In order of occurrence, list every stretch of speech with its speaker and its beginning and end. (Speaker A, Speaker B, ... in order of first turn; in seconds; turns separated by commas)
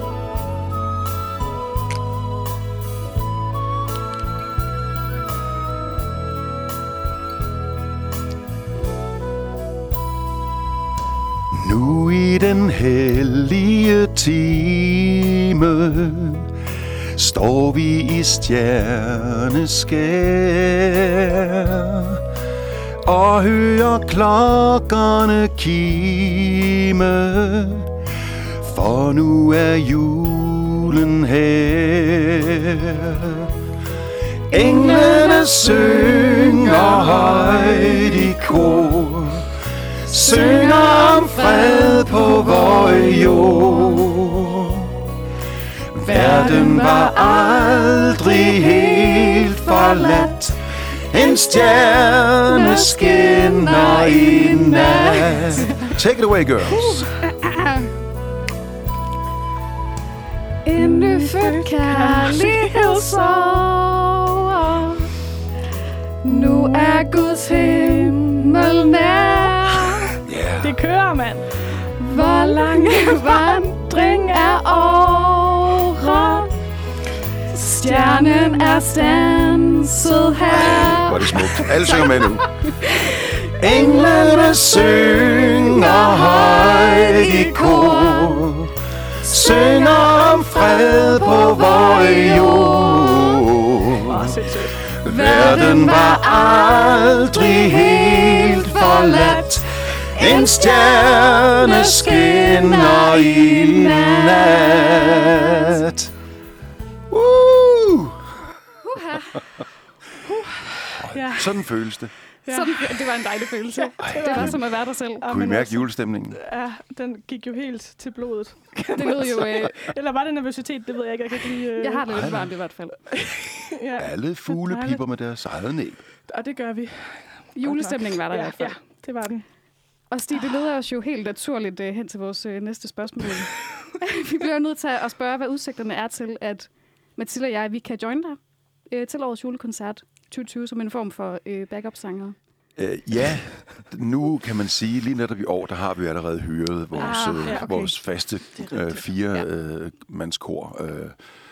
Speaker A: 11.5-16.5, Speaker A: 17.1-22.2, Speaker A: 23.0-33.5, Speaker A: 34.5-45.1, Speaker B: 34.8-35.4, Speaker B: 40.7-41.9, Speaker A: 45.9-57.1, Speaker B: 46.1-50.1, Speaker B: 51.5-51.9, Speaker B: 52.4-56.0, Speaker B: 56.7-57.9, Speaker C: 56.8-57.1, Speaker B: 60.6-65.1, Speaker C: 60.8-63.8, Speaker B: 66.2-70.1, Speaker C: 66.3-69.5, Speaker A: 70.2-70.8, Speaker C: 70.6-76.5, Speaker B: 72.0-76.4, Speaker C: 77.6-78.5, Speaker B: 77.6-88.5, Speaker A: 80.5-82.5, Speaker A: 83.6-94.4, Speaker B: 89.4-93.3, Speaker C: 94.0-94.9, Speaker A: 94.9-106.1, Speaker B: 95.0-105.8, Speaker A: 107.1-108.6, Speaker B: 108.8-109.4, Speaker C: 110.2-111.6, Speaker A: 111.0-112.1, Speaker C: 112.5-114.6, Speaker B: 112.5-115.3, Speaker A: 114.0-114.6, Speaker C: 115.2-122.3, Speaker A: 115.2-116.4, Speaker B: 118.9-119.9, Speaker B: 121.8-123.0, Speaker A: 122.1-122.5, Speaker C: 123.1-125.0, Speaker A: 124.0-126.0, Speaker C: 126.3-129.5, Speaker B: 127.6-128.8, Speaker B: 130.1-142.4, Speaker A: 142.8-151.2, Speaker C: 147.0-149.1, Speaker B: 147.0-147.9